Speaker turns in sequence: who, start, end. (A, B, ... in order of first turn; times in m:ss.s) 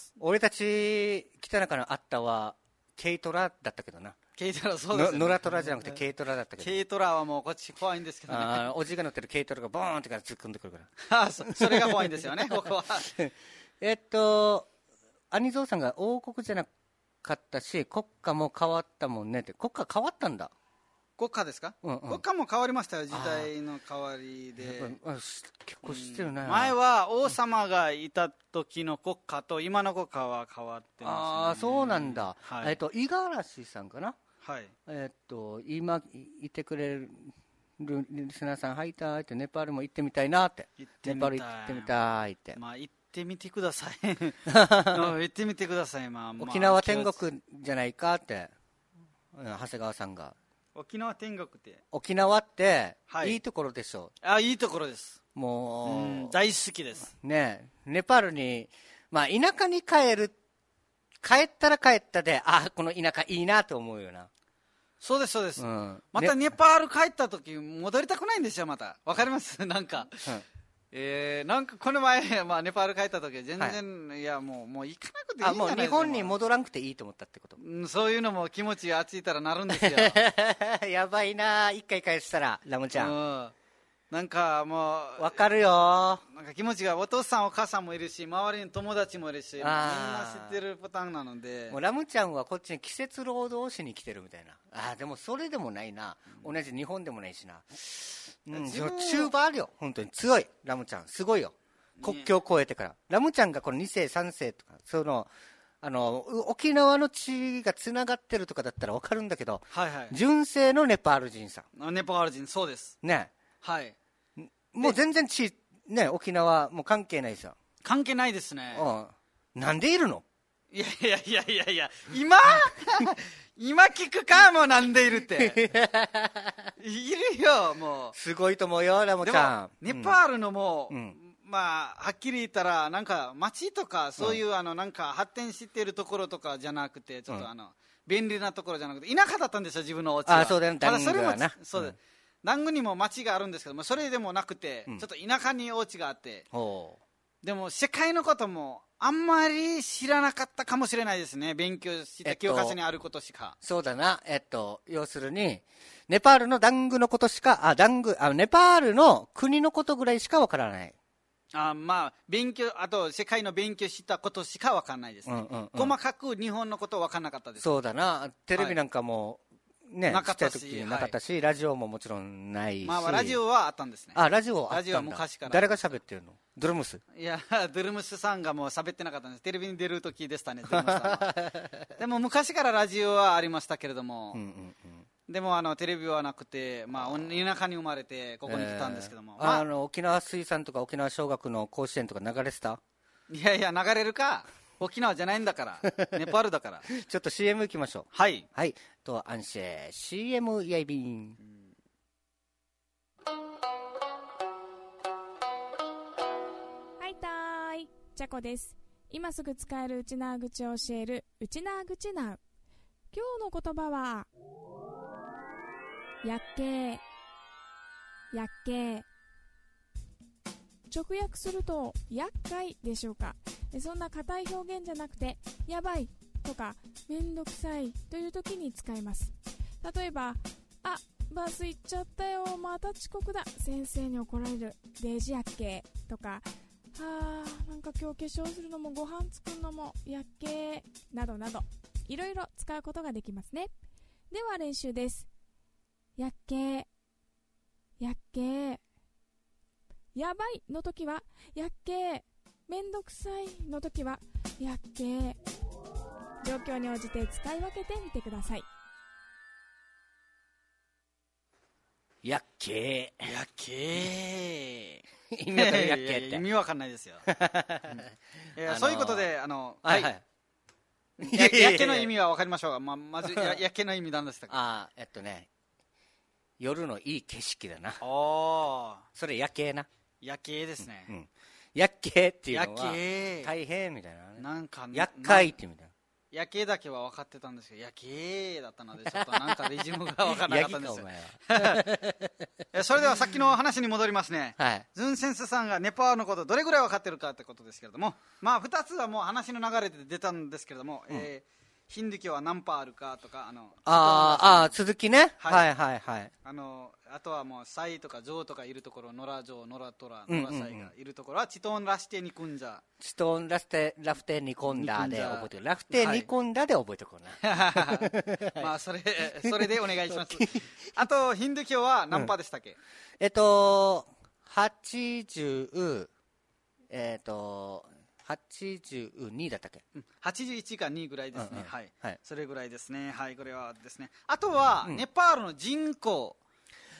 0:00.2-0:04.2 A
0:04.4-0:06.0 B
0:04.9-0:06.8 A
0:06.6-0:08.7 B
0:08.3-0:10.9 A
0:11.0-0:13.1 B
0:11.5-0:14.7 A
0:15.3-0:16.7 A
0:17.2-0:20.5 A
0:21.2-0:24.9 B
0:21.8-0:22.2 A
0:23.1-0:23.5 A
0:24.6-0:26.7 A
0:25.8-0:32.8 B
0:31.0-0:34.2 A
0:34.4-0:34.7 B
0:34.9-0:42.6 A
0:40.8-0:41.9 B
0:42.5-0:47.2 B
0:44.5-0:45.1 A
0:46.4-0:48.5 A
0:49.3-0:50.4 A
0:50.7-0:51.8 B
0:51.9-0:54.1 A
0:53.1-0:53.4 B
0:54.2-0:55.2 B
0:55.3-0:56.3 A
0:55.8-0:57.1 B
0:57.1-1:00.3 A
1:01.2-1:04.3 A
1:05.0-1:10.3 B
1:05.6-1:06.4 A
1:10.9-1:16.3 B
1:15.4-1:17.6 A
1:17.6-1:20.2 B
1:19.7-1:23.1 A
1:22.9-1:23.5 B
1:24.1-1:25.4 B
1:25.2-1:26.2 A
1:26.2-1:31.8 B
1:29.6-1:30.6 A
1:31.7-1:45.3 A
1:38.5-1:39.3 B
1:42.0-1:42.3 B
1:45.8-1:51.6 A
1:49.7-1:50.2 B
1:51.8-1:53.0 B
1:53.0-1:53.3 A
1:53.6-1:53.9 B
1:54.4-1:57.5 A
1:57.8-1:58.8 B
1:58.7-2:00.2 A
2:00.7-2:05.6 B
2:05.4-2:06.7 A
2:06.8-2:08.2 B
2:08.1-2:10.2 A
2:09.2-2:26.4 B
2:10.9-2:11.2 A
2:20.2-2:21.9 A
2:26.5-2:27.0 A
2:27.4-2:33.6 B
2:32.2-2:32.8 A
2:33.6-2:40.9 A
2:41.5-2:47.7 B
2:45.3-2:46.0 A
2:47.6-2:53.4 A
2:50.1-2:51.1 B
2:52.8-2:55.9 B
2:54.1-2:57.0 A
2:57.1-3:01.3 B
3:00.7-3:01.9 A
3:02.0-3:04.4 B
3:04.3-3:05.0 A
3:05.3-3:09.6 B
3:08.5-3:12.8 A
3:13.3-3:16.9 B
3:15.9-3:16.2 A
3:16.9-3:21.4 A
3:18.1-3:18.4 B
3:21.4-3:21.7 B
3:27.0-3:32.4 C
3:33.1-3:34.3 C
3:36.2-3:37.0 C
3:38.3-3:39.0 C
3:40.9-4:03.7 C
4:04.3-4:05.3 C
4:06.2-4:06.9 C
4:08.0-4:08.8 C
4:10.1-4:15.4 C
4:16.4-4:18.6 C
4:22.2-4:23.3 A
4:23.2-4:27.2 B
4:25.3-4:26.4 A
4:27.3-4:28.0 A
4:28.6-4:30.1 B
4:28.6-4:29.3 A
4:29.8-4:30.2 A
4:31.2-4:34.6 B
4:31.2-4:32.1 A
4:33.2-4:33.6 A
4:34.5-4:35.5 A
4:36.6-4:38.0 A
4:38.0-4:39.0 B
4:39.1-4:39.9 A
4:40.2-4:41.1 B
4:41.1-4:45.9 A
4:42.5-4:43.5 B
4:44.4-4:45.5 B
4:46.3-4:51.8 B
4:49.1-4:49.6 A
4:50.2-4:52.5 A
4:52.7-5:04.8 B
4:54.6-4:54.8 A
5:03.8-5:06.3 A
5:05.4-5:05.7 B
5:06.4-5:12.8 B
5:10.3-5:10.9 A
5:13.0-5:18.7 A
5:14.7-5:16.3 B
5:17.4-5:22.8 B
5:19.4-5:20.6 A
5:23.2-5:26.1 A
5:26.9-5:29.8 A
5:30.0-5:36.4 B
5:31.4-5:32.2 A